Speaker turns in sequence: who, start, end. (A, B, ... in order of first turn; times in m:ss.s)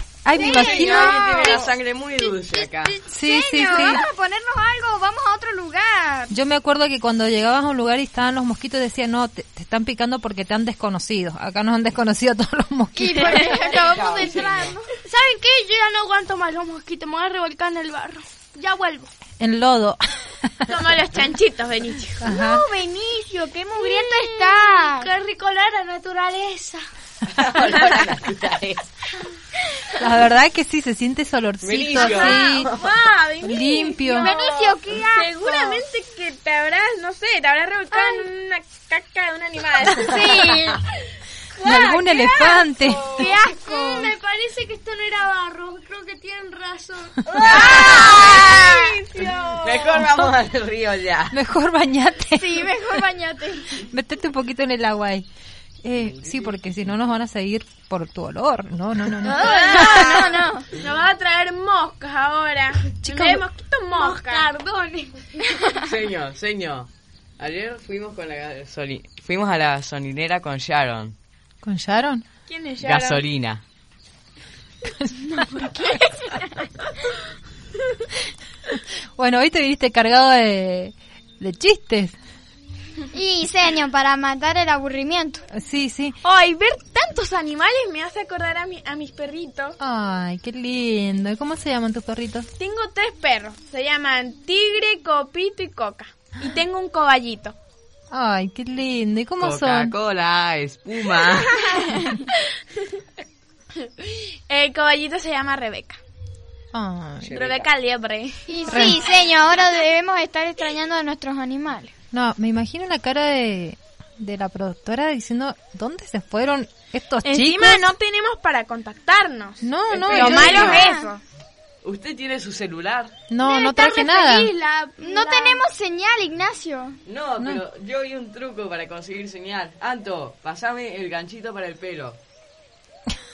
0:00.2-0:01.3 A
0:00.4-0:01.6 B
0:00.4-0:03.0 C
0:00.4-0:06.3 D
0:03.1-0:04.0 A
0:06.3-0:13.6 A
0:13.0-0:14.9 D
0:13.1-0:19.1 B
0:13.5-0:14.8 C
0:19.4-0:20.0 A
0:20.7-0:22.2 E
0:22.2-0:22.7 A
0:22.2-0:26.8 B
0:23.7-0:25.1 D
0:27.3-0:28.9 C
0:30.0-0:32.7 A
0:31.6-0:32.9 C
0:32.8-0:40.8 E
0:33.4-0:34.3 A
0:34.2-0:35.8 D
0:37.9-0:38.2 B
0:40.0-0:40.8 D
0:41.6-0:43.2 A
0:41.7-0:43.2 E
0:43.1-0:48.8 B
0:43.2-0:44.1 D
0:47.3-0:50.1 E
0:47.7-0:48.6 C
0:49.6-0:51.4 C
0:51.3-0:52.9 A
0:52.4-0:53.8 D
0:53.9-0:55.3 A
0:55.8-1:00.1 A
0:56.1-0:56.5 C
0:59.3-1:00.7 D
0:59.3-1:04.5 E
0:59.7-1:00.4 B
1:03.0-1:03.5 A
1:03.9-1:05.4 B
1:05.8-1:11.2 C
1:11.6-1:12.2 A
1:12.5-1:13.2 E
1:12.8-1:13.6 C
1:14.9-1:15.4 A
1:15.6-1:15.9 D
1:19.2-1:22.2 A
1:23.1-1:25.4 D
1:25.5-1:26.2 A
1:26.2-1:29.8 E
1:29.8-1:32.5 A
1:32.6-1:37.6 E
1:38.1-1:40.0 A
1:39.4-1:41.8 C
1:43.8-1:46.0 E
1:46.7-1:47.4 A
1:47.2-1:47.7 C
1:47.3-1:48.9 E
1:48.5-1:51.9 D
1:48.7-1:49.0 A
1:52.1-1:58.0 A
1:57.2-2:01.2 E
1:59.6-2:00.9 A
1:59.9-2:00.8 C
2:00.5-2:01.1 D
2:01.8-2:03.2 C
2:03.3-2:04.5 A
2:03.4-2:05.6 B
2:05.0-2:07.0 D
2:07.1-2:12.2 C